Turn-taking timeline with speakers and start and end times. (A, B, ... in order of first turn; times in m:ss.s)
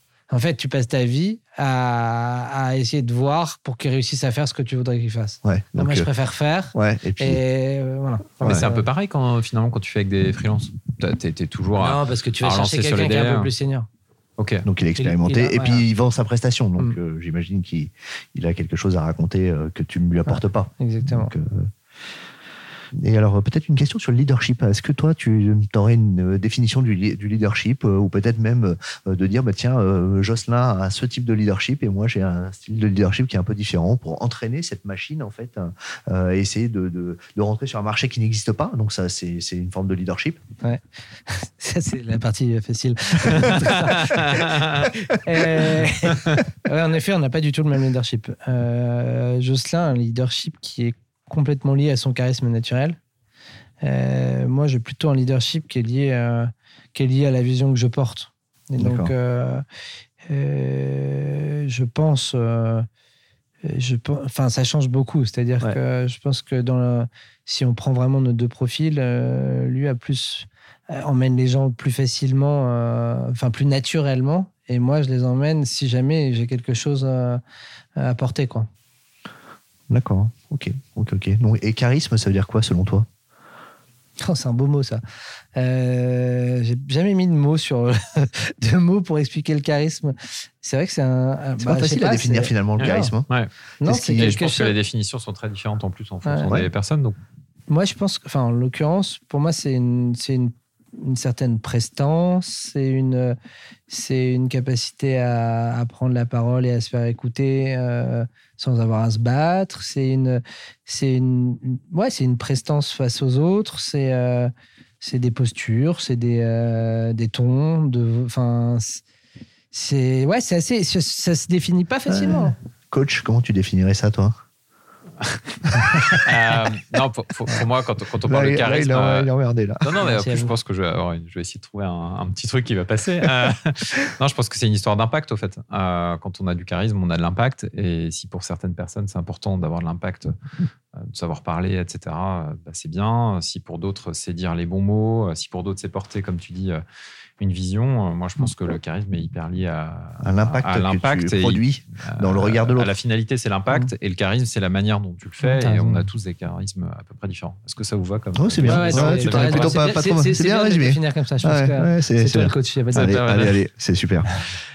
0:00.3-0:08.9 A
0:05.4-0:06.1 B
0:06.7-0:07.4 B
0:08.4-0:13.5 C
0:11.8-0:13.9 A
0:14.4-0:14.7 C
0:14.6-0:21.7 B
0:15.0-0:15.8 A
0:20.3-0:21.3 A
0:22.9-0:40.4 B
0:40.6-0:53.0 A
0:43.3-0:43.6 B
0:43.4-0:44.9 C
0:53.8-0:59.6 A
0:58.8-0:59.1 B
1:00.3-1:02.9 A
1:03.6-1:17.4 A
1:18.0-1:18.7 A
1:19.9-1:23.1 B
1:24.2-1:25.0 A
1:25.6-1:33.1 A
1:31.6-1:33.3 B
1:32.8-1:33.5 C
1:33.8-1:34.7 A
1:33.8-1:34.4 B
1:34.1-1:37.2 C
1:36.2-1:36.6 A
1:37.7-1:43.4 A
1:43.9-1:59.0 A
1:59.7-2:02.6 A
2:02.1-2:04.3 B
2:06.1-2:09.3 C
2:08.3-2:10.0 B
2:09.8-2:20.4 C
2:10.0-2:10.5 A
2:20.9-2:26.8 C
2:27.4-2:39.9 C
2:30.2-2:32.9 B
2:35.4-2:36.0 A
2:38.4-2:44.3 B
2:38.7-2:43.3 A
2:42.9-2:43.6 C